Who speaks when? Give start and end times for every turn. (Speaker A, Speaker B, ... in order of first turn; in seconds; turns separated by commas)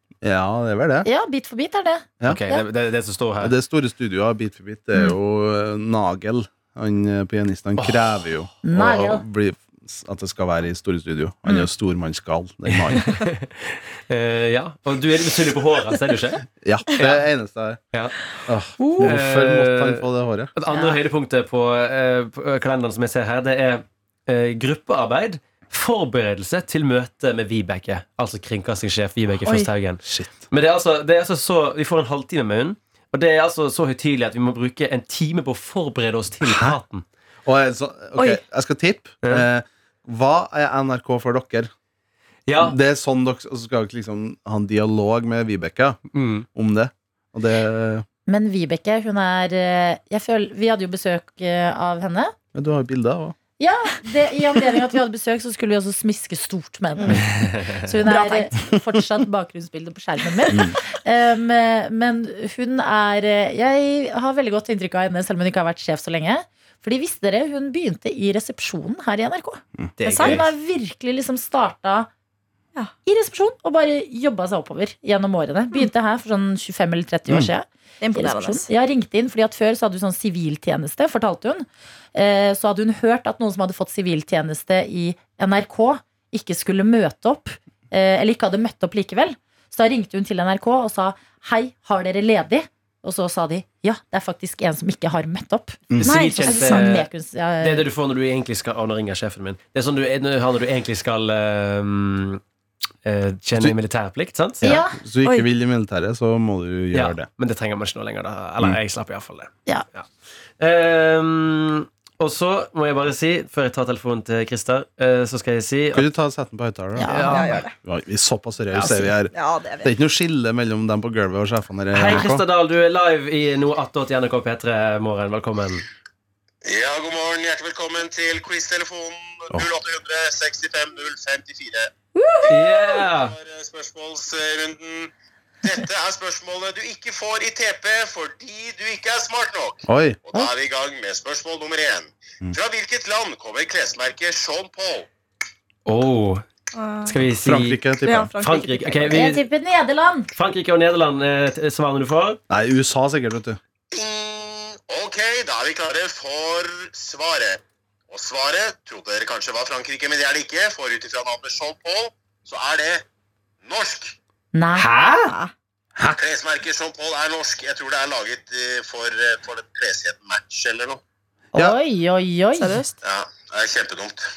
Speaker A: 0.2-1.1, Speaker B: 1.0-2.6, Speaker C: 2.2-3.5, Speaker A: 3.4-13.1, Speaker C: 7.8-8.2, Speaker B: 8.6-9.2, Speaker C: 12.7-17.2, Speaker A: 16.6-17.8, Speaker A: 18.5-20.5, Speaker B: 18.8-19.1, Speaker C: 19.0-20.0, Speaker C: 20.6-37.0, Speaker B: 20.7-20.9, Speaker A: 30.0-30.5, Speaker A: 36.4-36.8, Speaker A: 37.4-41.7, Speaker D: 38.1-38.4, Speaker C: 42.5-42.8, Speaker A: 42.6-46.0, Speaker C: 46.1-46.5, Speaker A: 46.5-48.0, Speaker B: 48.3-52.3, Speaker A: 52.5-53.4, Speaker B: 53.6-69.6, Speaker D: 57.0-57.2, Speaker D: 58.0-58.5, Speaker A: 69.8-70.4, Speaker C: 70.0-70.4, Speaker D: 70.0-70.4, Speaker B: 70.2-72.1, Speaker B: 73.0-97.9, Speaker D: 78.0-78.7, Speaker C: 96.0-97.1, Speaker D: 96.0-97.0, Speaker C: 97.6-102.4, Speaker C: 103.0-104.6, Speaker A: 104.6-107.3, Speaker B: 104.6-105.0, Speaker C: 106.9-110.0, Speaker C: 110.6-116.1, Speaker A: 115.9-117.2, Speaker B: 117.0-117.5, Speaker C: 117.1-117.6, Speaker D: 117.3-117.7, Speaker A: 117.8-122.4, Speaker D: 119.3-119.9, Speaker C: 121.9-125.8, Speaker E: 126.6-131.9, Speaker B: 132.2-132.7, Speaker E: 132.4-135.1, Speaker C: 132.5-133.3, Speaker E: 135.6-145.1, Speaker A: 139.9-140.2, Speaker C: 145.8-146.4, Speaker D: 146.7-147.1, Speaker C: 147.0-147.8, Speaker A: 147.4-148.3, Speaker D: 148.0-149.2, Speaker C: 148.4-149.4, Speaker B: 149.1-150.3, Speaker C: 150.3-152.4, Speaker A: 152.5-153.6, Speaker E: 153.9-163.0, Speaker E: 163.6-164.1, Speaker B: 164.5-164.9, Speaker C: 164.8-165.2, Speaker D: 165.2-165.5, Speaker E: 166.1-171.0, Speaker B: 171.5-172.8, Speaker D: 172.6-173.0, Speaker E: 173.0-174.2